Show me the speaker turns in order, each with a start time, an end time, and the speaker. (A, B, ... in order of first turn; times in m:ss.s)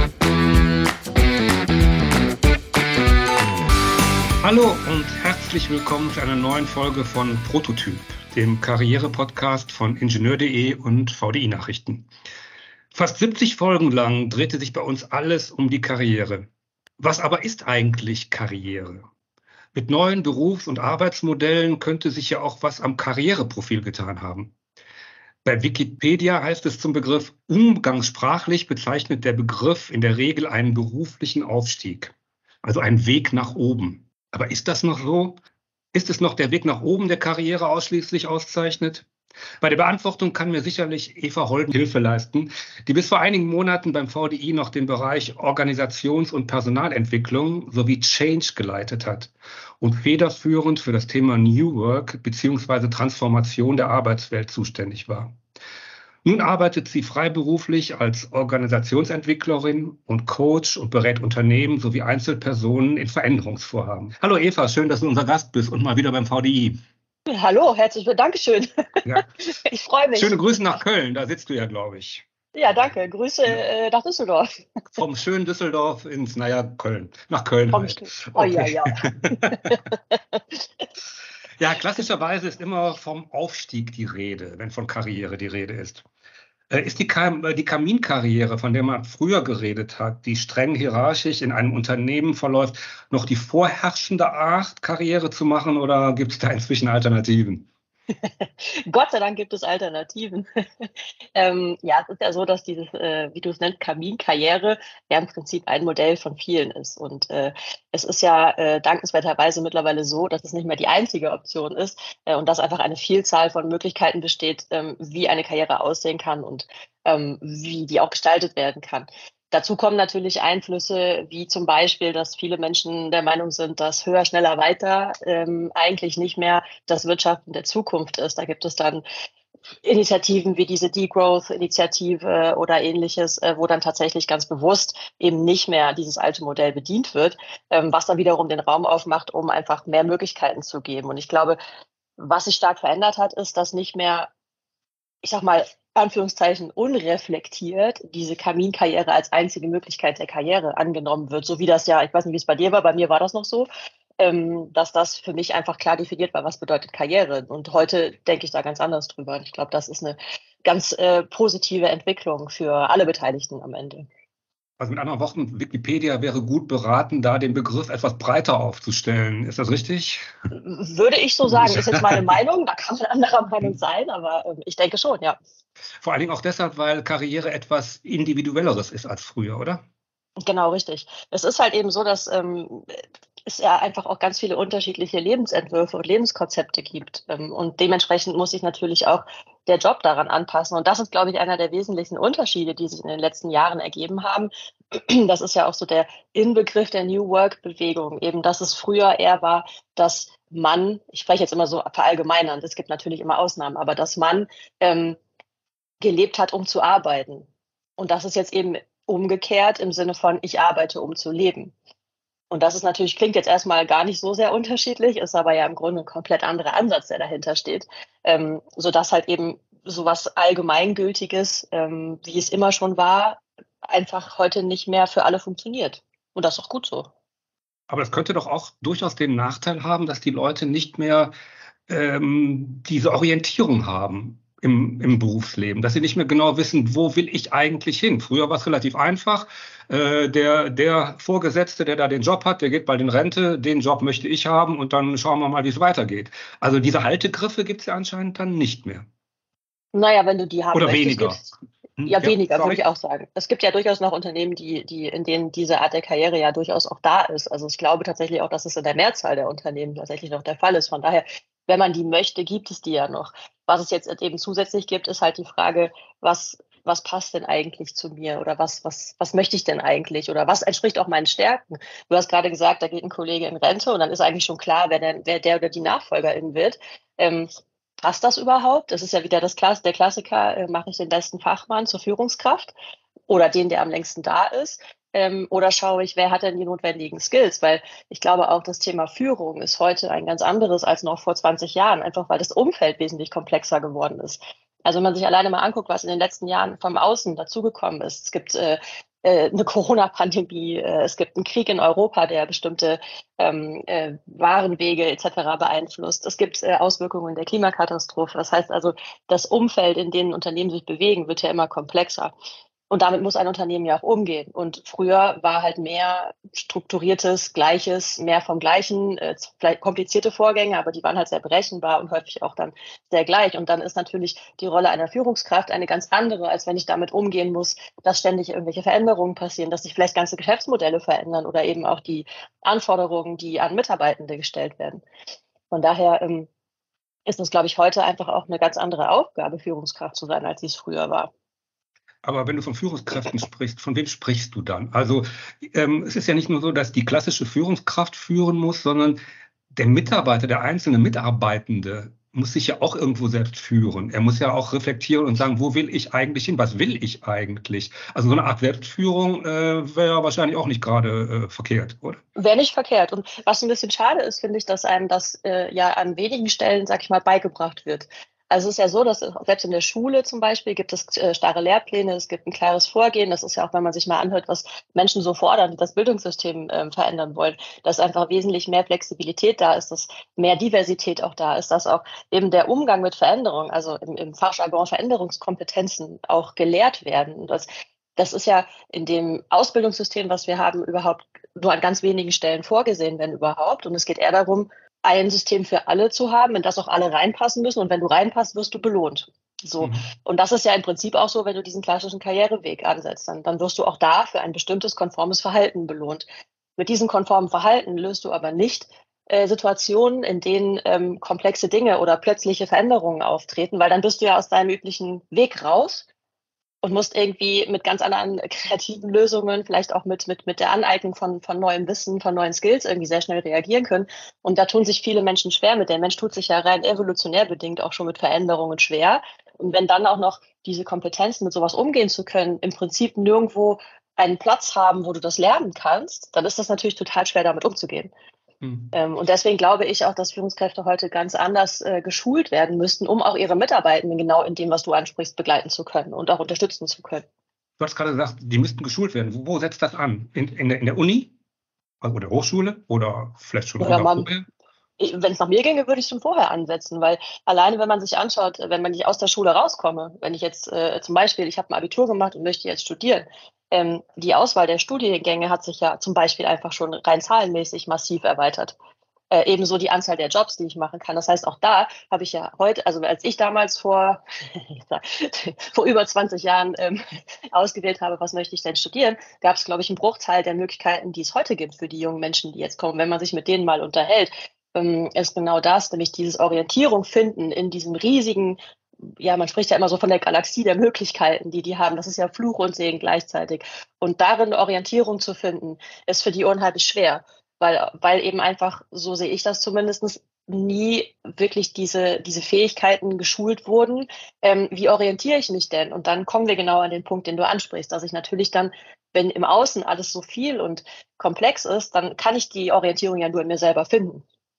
0:04.4-0:12.1 A
0:12.9-0:16.5 A
0:17.0-0:19.0 A
0:19.7-0:24.5 A
0:25.4-0:35.4 A
0:35.9-0:39.1 A
0:39.6-0:55.4 A
0:56.2-1:06.8 A
1:07.3-1:10.4 B
1:10.1-1:12.2 A
1:12.5-1:14.6 B
1:15.0-1:19.8 A
1:17.7-1:20.6 B
1:21.6-1:26.0 A
1:26.7-1:37.7 A
1:38.4-2:09.0 B
2:09.8-2:21.6 B
2:22.2-2:24.3 B
2:25.2-2:44.0 B
2:44.8-2:50.3 A
2:50.5-2:55.4 B
2:51.5-2:52.2 A
2:56.0-2:59.8 A
3:00.4-3:25.2 B
3:26.0-3:27.5 B
3:28.0-3:31.7 B
3:32.5-3:47.1 B
3:47.9-3:51.3 A
3:51.9-4:09.0 A
4:09.9-4:11.5 B
4:10.7-4:11.4 A
4:12.0-4:12.8 A
4:12.0-4:37.5 B
4:38.0-4:42.7 B
4:43.3-5:12.3 B
5:12.9-5:35.0 B
5:35.7-5:36.5 B
5:37.2-5:41.3 B
5:42.2-5:49.2 A
5:49.7-6:02.2 A
6:02.4-6:46.2 B
6:39.8-6:40.1 A
6:46.8-6:56.0 B
6:56.8-7:18.1 B
7:18.6-7:18.9 A
7:18.9-7:27.2 B
7:27.8-7:31.3 A
7:32.0-7:34.4 A
7:33.8-7:34.3 B
7:35.0-7:48.8 B
7:49.3-8:34.2 B